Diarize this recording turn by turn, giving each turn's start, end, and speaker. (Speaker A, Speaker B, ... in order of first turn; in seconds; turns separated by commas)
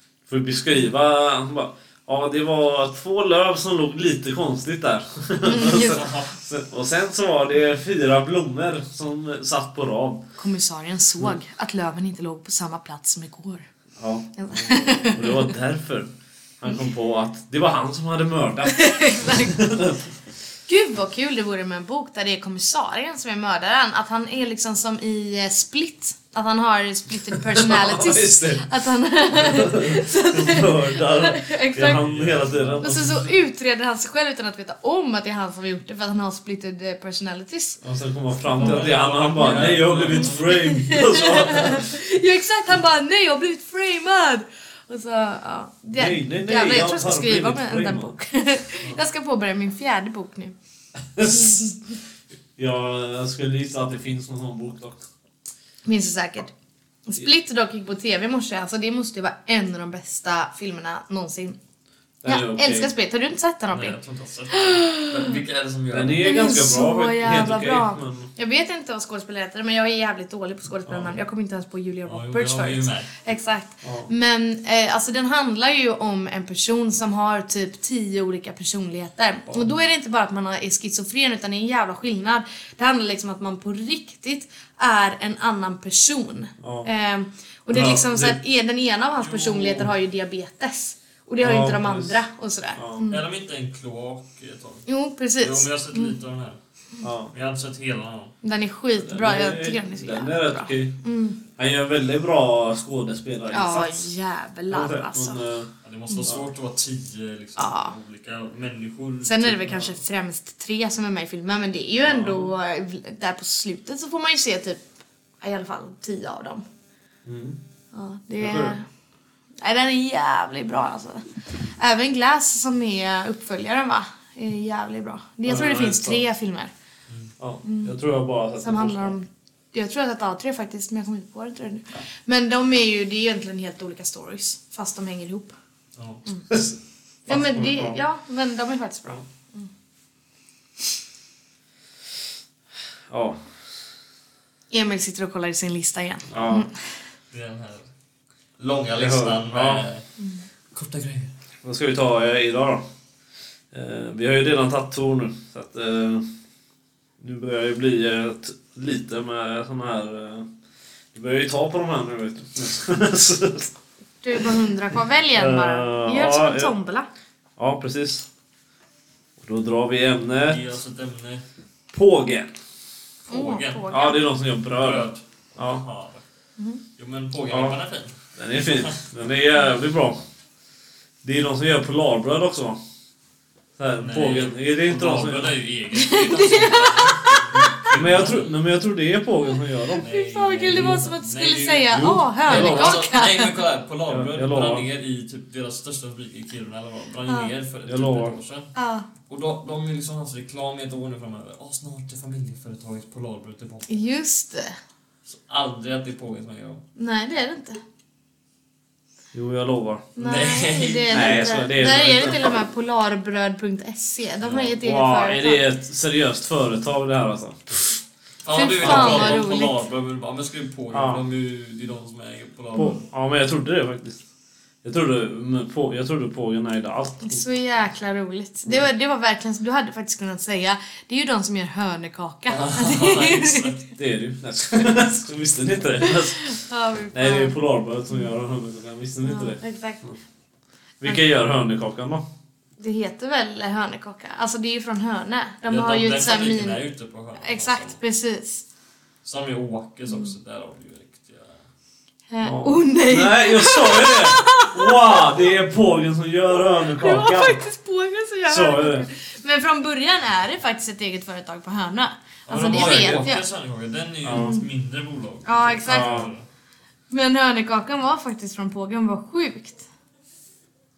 Speaker A: 0.3-10.2, Speaker B: 5.4-6.0, Speaker C: 5.7-6.3, Speaker B: 10.4-13.7, Speaker A: 14.0-20.0, Speaker B: 14.4-15.5, Speaker B: 18.7-19.6, Speaker B: 20.7-32.0, Speaker A: 27.5-28.7, Speaker A: 29.3-33.3, Speaker C: 31.8-33.2, Speaker B: 32.8-37.8, Speaker A: 37.8-41.9, Speaker C: 38.5-40.6, Speaker B: 38.6-50.5, Speaker A: 46.0-48.1, Speaker A: 51.2-51.7, Speaker B: 51.3-51.6, Speaker A: 52.6-55.0, Speaker B: 55.9-56.5, Speaker B: 57.1-61.6, Speaker A: 62.2-62.9, Speaker B: 62.3-64.0, Speaker C: 63.7-66.3, Speaker B: 64.5-65.4, Speaker A: 65.9-68.3, Speaker B: 66.2-93.2, Speaker C: 72.1-73.1, Speaker A: 73.8-74.1, Speaker A: 86.6-86.9, Speaker A: 87.7-88.4, Speaker C: 89.2-89.9, Speaker A: 91.4-92.2, Speaker A: 92.8-93.1, Speaker C: 93.1-94.9, Speaker B: 94.9-96.1, Speaker C: 95.4-96.6, Speaker A: 97.0-97.3, Speaker C: 97.3-98.3, Speaker B: 98.4-101.4, Speaker A: 99.0-101.0, Speaker A: 101.6-104.1, Speaker B: 103.5-105.4, Speaker A: 104.7-105.7, Speaker C: 105.8-109.8, Speaker B: 107.6-108.0, Speaker B: 109.2-114.8, Speaker A: 112.1-112.5, Speaker B: 115.4-116.7, Speaker A: 117.2-117.6, Speaker B: 117.9-118.9, Speaker A: 118.4-118.8, Speaker B: 119.6-126.7, Speaker A: 125.5-126.2, Speaker A: 127.4-129.2, Speaker B: 127.6-127.9, Speaker B: 128.6-135.6, Speaker C: 136.0-136.2, Speaker A: 136.5-138.0, Speaker B: 137.3-139.7, Speaker A: 143.1-143.4, Speaker B: 144.7-146.7, Speaker A: 146.3-146.7, Speaker C: 147.3-147.9, Speaker C: 148.6-150.1, Speaker A: 149.0-149.8, Speaker C: 150.7-151.3, Speaker A: 151.6-152.8, Speaker A: 153.7-156.3, Speaker A: 157.2-160.5, Speaker A: 161.1-163.7, Speaker B: 164.2-167.1, Speaker A: 165.4-166.7, Speaker A: 167.6-168.3, Speaker A: 169.4-170.6, Speaker C: 170.5-171.4, Speaker A: 171.9-172.5, Speaker C: 173.3-174.0, Speaker B: 173.3-174.2, Speaker A: 173.9-175.8, Speaker C: 174.7-176.2, Speaker C: 177.0-179.0, Speaker A: 177.5-177.8, Speaker A: 178.4-180.2, Speaker A: 181.2-182.8, Speaker A: 183.8-185.6, Speaker C: 184.0-188.6, Speaker B: 185.9-187.9, Speaker A: 187.9-190.1, Speaker B: 190.0-193.6, Speaker C: 190.0-198.7, Speaker A: 190.7-191.0, Speaker A: 191.9-193.0, Speaker A: 194.1-194.9, Speaker B: 197.3-197.5, Speaker A: 197.9-198.3, Speaker B: 198.8-199.1, Speaker C: 199.3-203.9, Speaker B: 203.9-204.8, Speaker C: 205.3-206.8, Speaker B: 207.0-207.8, Speaker A: 209.3-210.1, Speaker B: 210.2-215.6, Speaker C: 210.2-211.6, Speaker A: 211.1-212.5, Speaker C: 214.4-214.7, Speaker A: 214.8-218.0, Speaker C: 218.4-223.0, Speaker B: 218.5-219.8, Speaker A: 218.8-219.4, Speaker A: 220.9-221.2, Speaker A: 222.8-224.2, Speaker A: 224.8-227.4, Speaker B: 227.2-233.7, Speaker C: 232.5-233.8, Speaker A: 234.0-236.6, Speaker B: 236.0-237.6, Speaker A: 237.1-240.2, Speaker B: 239.2-240.0, Speaker A: 241.0-242.2, Speaker B: 242.8-246.8, Speaker C: 245.7-248.0, Speaker B: 247.4-248.7, Speaker C: 249.2-251.6, Speaker B: 250.1-250.3, Speaker B: 252.3-255.4, Speaker A: 252.4-257.6, Speaker B: 256.8-263.4, Speaker A: 258.5-259.1, Speaker C: 262.5-266.5, Speaker A: 262.7-263.1, Speaker A: 264.2-264.5, Speaker B: 264.3-264.6, Speaker B: 265.4-266.3, Speaker A: 265.9-266.3, Speaker B: 267.1-269.9